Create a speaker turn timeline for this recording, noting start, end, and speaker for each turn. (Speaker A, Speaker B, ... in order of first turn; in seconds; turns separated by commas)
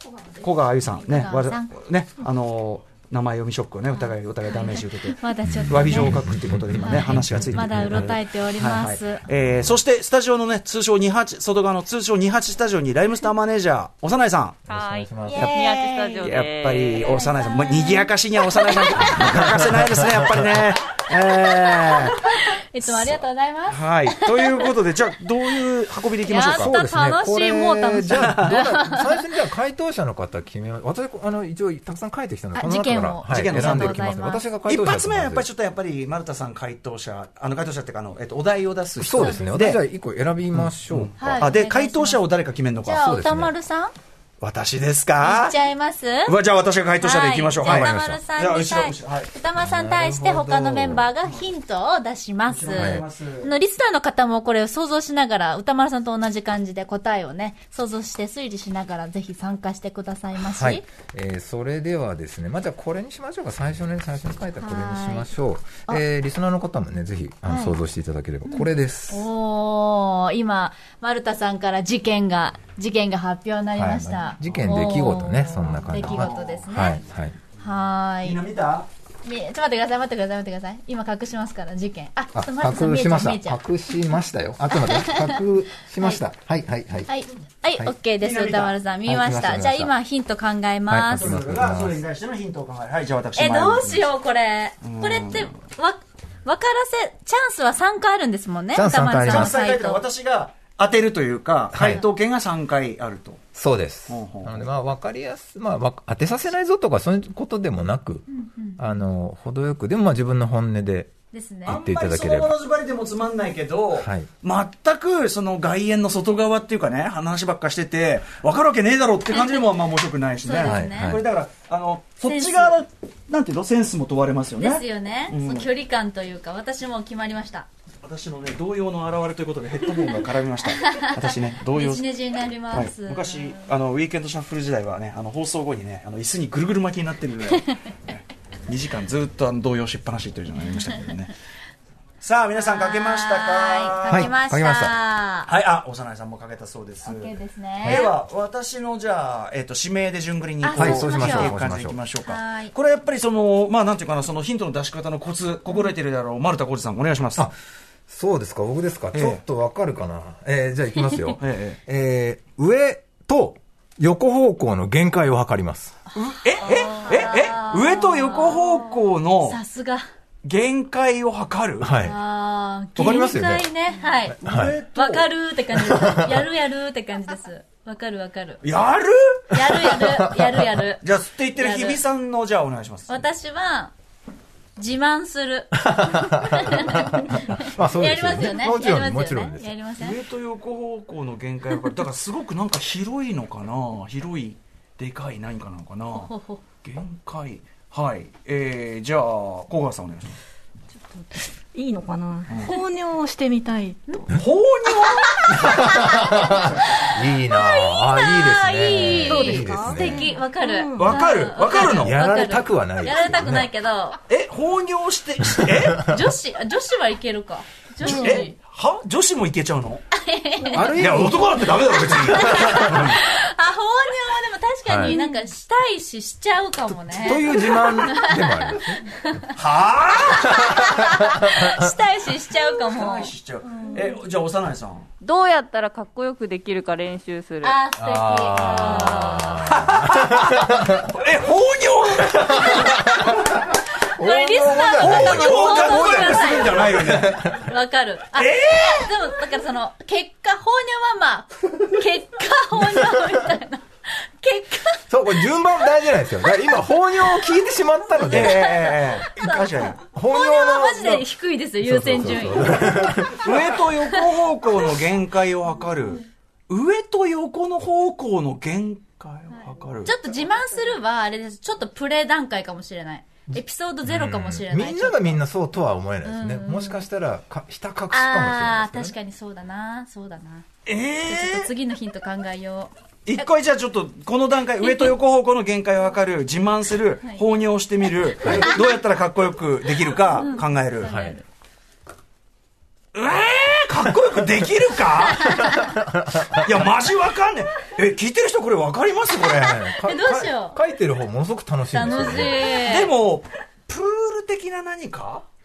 Speaker A: 0.4-14.6, Speaker B: 1.1-1.7, Speaker B: 4.6-6.3, Speaker C: 5.4-8.2, Speaker B: 6.8-9.2, Speaker C: 9.4-9.8, Speaker C: 14.7-15.6, Speaker D: 14.7-17.3, Speaker B: 15.2-16.4, Speaker A: 16.2-22.2, Speaker B: 17.2-19.4, Speaker B: 22.2-24.7, Speaker A: 22.8-26.8, Speaker B: 26.2-29.2, Speaker C: 26.4-35.5, Speaker A: 28.1-28.6, Speaker B: 32.5-34.4, Speaker A: 33.3-34.0, Speaker A: 34.7-39.8, Speaker C: 39.0-41.5, Speaker B: 39.2-39.6, Speaker A: 40.5-43.1, Speaker B: 41.2-42.3, Speaker B: 42.8-43.9, Speaker C: 43.0-43.5, Speaker A: 44.4-45.6, Speaker B: 45.2-46.4, Speaker A: 46.3-49.3, Speaker B: 47.0-60.9, Speaker C: 47.6-48.2, Speaker C: 49.6-51.1, Speaker A: 52.5-53.5, Speaker C: 52.8-53.0, Speaker C: 60.4-69.3, Speaker B: 64.6-65.3, Speaker B: 67.5-67.8, Speaker B: 68.5-77.0, Speaker C: 73.8-77.4, Speaker A: 76.1-76.5, Speaker B: 77.6-78.4, Speaker A: 78.2-78.9, Speaker B: 79.2-83.6, Speaker C: 82.3-87.1, Speaker B: 84.7-85.5, Speaker B: 86.0-86.2, Speaker B: 87.1-91.4, Speaker A: 88.2-88.8, Speaker C: 89.1-89.9, Speaker C: 90.9-92.0, Speaker A: 91.1-94.1, Speaker B: 93.3-100.0, Speaker A: 94.8-95.6, Speaker C: 98.7-99.6, Speaker A: 99.2-103.4, Speaker C: 101.7-102.0, Speaker C: 103.5-111.1, Speaker A: 104.1-104.7, Speaker B: 108.3-108.8, Speaker B: 111.3-111.8, Speaker C: 111.7-112.6, Speaker A: 111.7-125.7, Speaker C: 113.9-114.3, Speaker B: 120.4-121.2, Speaker C: 120.6-121.2, Speaker B: 122.2-122.8, Speaker B: 124.6-127.7, Speaker A: 128.0-132.1, Speaker B: 130.7-133.6, Speaker A: 132.7-141.3, Speaker A: 142.2-144.3, Speaker B: 142.6-145.5, Speaker C: 144.1-145.0, Speaker A: 145.5-157.5, Speaker B: 147.0-148.1, Speaker C: 147.8-148.1, Speaker B: 150.6-151.6, Speaker C: 150.8-152.0, Speaker B: 152.2-152.8, Speaker C: 158.1-165.9, Speaker A: 159.1-159.4, Speaker A: 161.4-161.8, Speaker A: 166.2-169.6, Speaker B: 166.7-168.7, Speaker B: 169.4-170.0, Speaker A: 170.4-171.9, Speaker C: 171.8-172.2, Speaker B: 172.0-174.4, Speaker C: 173.0-173.7, Speaker A: 174.4-175.3, Speaker C: 174.4-174.8, Speaker B: 174.9-178.6, Speaker C: 175.7-176.4, Speaker A: 178.6-179.9, Speaker B: 179.5-182.0, Speaker C: 179.8-180.7, Speaker A: 181.0-183.2, Speaker B: 183.1-183.9, Speaker B: 184.8-190.2, Speaker C: 185.8-189.7, Speaker A: 190.0-196.3, Speaker B: 196.1-196.6, Speaker A: 196.8-200.3, Speaker E: 201.3-204.2, Speaker A: 202.5-202.8, Speaker A: 204.3-205.8, Speaker C: 205.5-210.3, Speaker B: 207.5-214.2, Speaker E: 209.3-211.2, Speaker A: 210.9-212.2, Speaker C: 211.8-213.7, Speaker A: 214.3-216.2, Speaker B: 216.0-218.5, Speaker C: 218.0-218.3, Speaker A: 218.0-220.0, Speaker B: 220.1-221.4, Speaker C: 220.7-223.1, Speaker A: 220.9-223.2, Speaker B: 222.1-229.5, Speaker C: 224.9-225.2, Speaker C: 227.1-229.2, Speaker A: 229.6-230.7, Speaker B: 230.4-234.1, Speaker C: 230.5-231.9, Speaker A: 232.8-235.1, Speaker D: 235.2-237.8, Speaker B: 237.6-239.7, Speaker C: 238.0-241.1, Speaker A: 239.7-243.2, Speaker C: 242.6-243.5, Speaker C: 244.2-247.6, Speaker B: 244.2-255.5, Speaker A: 245.0-247.4, Speaker A: 248.3-249.1, Speaker C: 255.1-258.7, Speaker B: 258.1-263.3, Speaker A: 258.3-260.0, Speaker C: 260.1-261.3, Speaker C: 261.8-263.6, Speaker A: 263.4-270.4, Speaker B: 270.1-275.4, Speaker C: 273.5-279.1, Speaker B: 276.2-277.0, Speaker B: 278.1-280.7, Speaker A: 280.9-281.7, Speaker B: 281.3-283.4, Speaker A: 283.3-291.1, Speaker C: 288.4-288.7, Speaker B: 290.3-291.4, Speaker C: 291.1-291.4, Speaker A: 293.1-295.5, Speaker C: 295.4-296.7, Speaker B: 295.5-295.9, Speaker A: 296.6-299.8, Speaker C: 299.5-302.8, Speaker B: 299.9-300.8, Speaker B: 301.9-303.1, Speaker A: 302.8-305.4